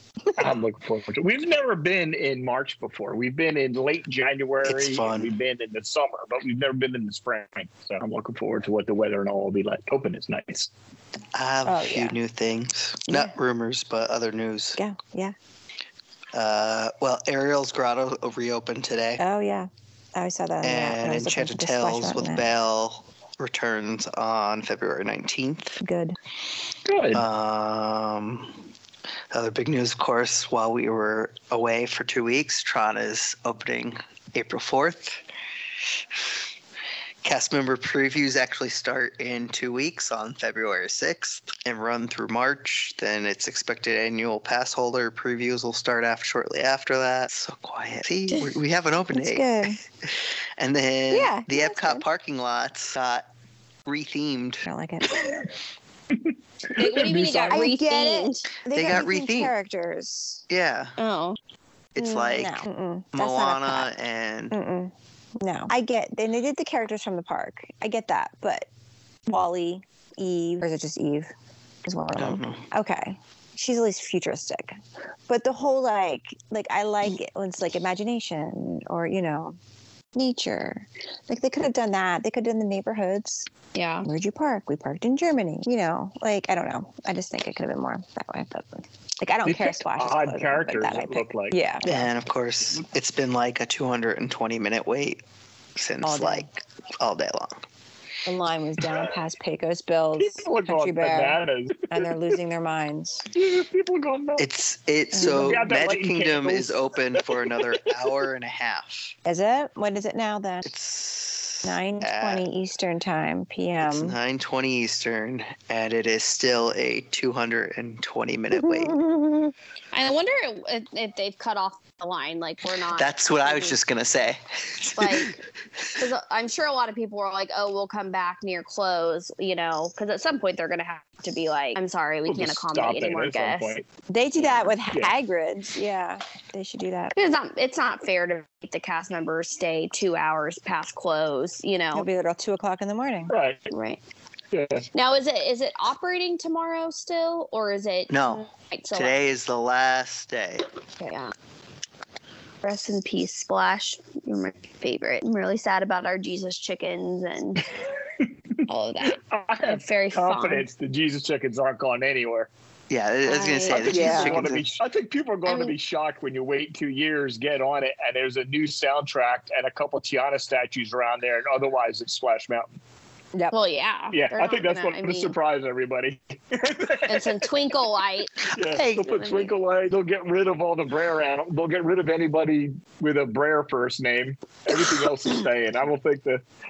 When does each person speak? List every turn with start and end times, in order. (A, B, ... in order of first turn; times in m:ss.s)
0:00.4-0:10.7 A
0:04.6-0:05.3 B
0:11.4-0:14.8 B
0:11.6-0:12.2 C
0:13.1-0:13.4 C
0:14.8-0:15.4 C
0:16.3-0:19.2 B
0:19.2-0:22.4 C
0:20.6-0:25.8 B
0:25.8-0:26.2 C
0:26.9-0:27.2 A
0:27.1-0:28.6 B
0:29.3-0:35.2 B
0:37.2-0:53.2 B
0:48.3-0:48.6 C
0:49.1-0:49.8 C
0:51.1-0:52.0 C
0:53.9-0:54.7 B
0:54.6-0:55.3 C
0:55.1-0:55.4 A
0:56.2-0:57.7 A
0:56.7-0:58.4 D
0:57.4-1:00.4 C
0:58.7-0:59.5 B
1:00.5-1:01.0 B
1:01.0-1:01.4 D
1:02.0-1:04.6 B
1:02.0-1:03.9 C
1:04.5-1:08.7 C
1:09.3-1:11.3 C
1:11.8-1:19.6 C
1:12.2-1:12.6 B
1:20.2-1:23.5 C
1:23.7-1:24.1 D
1:24.0-1:32.0 C
1:29.4-1:31.6 A
1:31.9-1:35.2 B
1:35.8-1:37.6 B
1:36.0-1:36.5 C
1:38.2-1:43.3 C
1:40.2-1:42.2 A
1:43.3-1:44.5 A
1:44.4-1:49.1 B
1:45.1-1:45.6 C
1:45.2-1:48.1 A
1:49.2-1:50.7 C
1:50.6-1:52.4 B
1:51.6-1:54.2 C
1:53.8-1:59.0 B
1:58.5-1:59.5 C
1:59.9-2:03.8 D
2:03.0-2:05.4 B
2:05.0-2:05.4 D
2:06.0-2:13.7 D
2:12.3-2:13.8 A
2:14.1-2:17.1 C
2:14.4-2:14.6 D
2:17.1-2:22.1 D
2:21.9-2:23.3 C
2:23.3-2:23.7 A
2:23.7-2:24.0 D
2:24.5-2:24.9 A
2:24.9-2:29.2 D
2:28.1-2:30.7 B
2:31.0-2:31.3 D
2:32.6-2:37.7 D
2:38.7-2:40.7 D
2:39.0-2:42.5 A
2:42.9-2:44.6 B
2:43.2-2:44.3 D
2:43.7-2:52.7 A
2:43.9-2:44.5 C
2:45.5-2:45.8 D
2:53.5-2:55.4 D
2:54.1-2:57.5 A
2:57.1-2:59.5 D
2:58.4-3:06.4 A
2:58.7-2:59.2 B